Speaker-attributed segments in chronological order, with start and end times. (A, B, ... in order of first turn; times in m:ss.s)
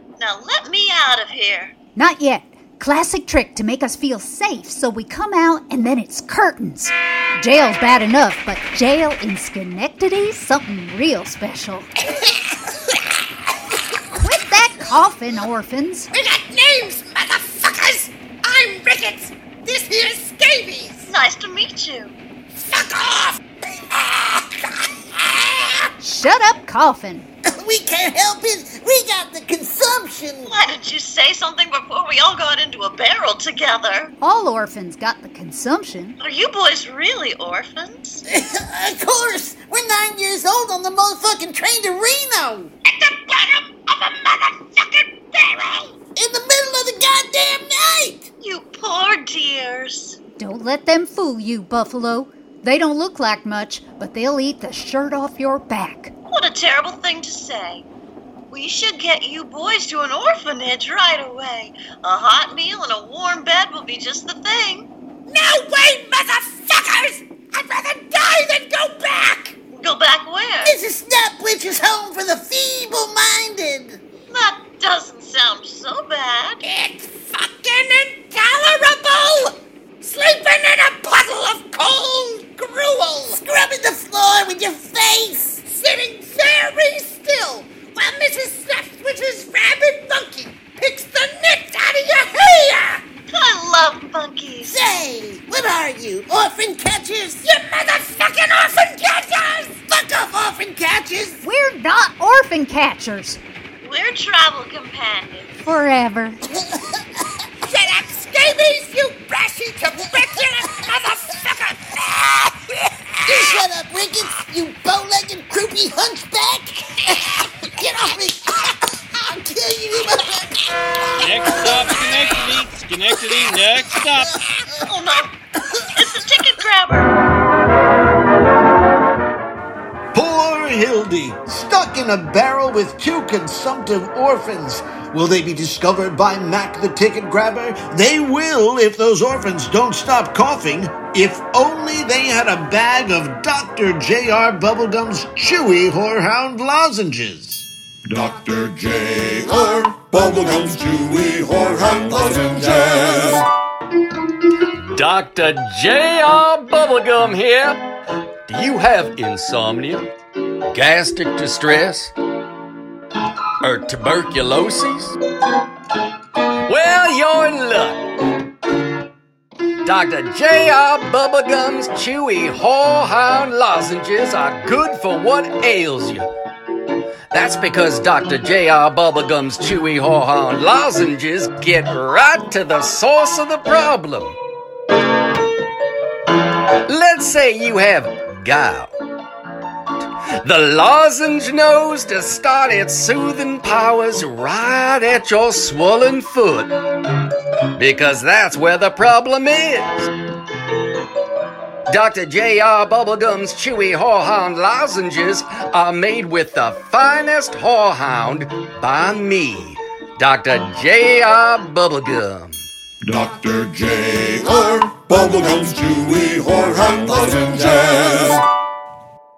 0:00.2-0:01.8 A
0:02.0-0:11.9 B
0:14.1-0:16.1 B
0:16.1-0:21.1 C
0:21.1-0:22.2 A
0:22.6-0:23.4 C
0:24.1-0:24.4 C
0:25.4-0:25.8 C
0:26.0-0:27.3 B
0:27.5-0:30.5 D
0:30.5-0:34.1 A
0:34.2-0:36.2 B
0:36.2-0:38.2 A
0:38.3-0:42.7 D
0:42.9-0:46.0 C
0:46.2-0:48.3 D
0:48.4-0:50.2 A
0:50.4-0:56.1 B
0:56.3-0:57.9 A
0:58.5-1:04.9 A
1:05.3-1:09.5 C
1:09.7-1:10.8 A
1:10.6-1:14.0 D
1:14.3-1:16.6 A
1:16.6-1:23.4 C
1:23.4-1:25.7 D
1:25.8-1:32.3 C
1:27.3-1:27.6 D
1:28.2-1:28.6 D
1:30.2-1:30.9 D
1:32.3-1:33.0 D
1:33.3-1:34.8 A
1:34.7-1:37.4 D
1:37.4-1:39.8 C
1:39.8-1:41.4 D
1:41.4-1:43.4 B
1:43.8-1:45.5 A
1:45.6-1:46.4 B
1:47.6-1:53.5 C
1:50.0-1:50.9 D
1:53.3-2:00.6 D
2:01.2-2:04.3 E
2:01.3-2:02.2 D
2:04.9-2:05.3 A
2:06.0-2:07.1 A
2:10.1-2:27.7 F
2:28.1-2:33.5 G
2:34.9-2:37.8 H
2:38.5-2:40.1 H
2:40.7-2:42.1 H
2:43.6-2:45.2 H
2:46.6-2:48.0 H
2:49.8-2:56.3 H
2:57.3-3:04.4 H
3:06.9-3:08.9 H
3:10.4-3:16.7 H
3:17.8-3:20.1 H
3:21.9-3:32.6 H
3:33.0-3:38.4 G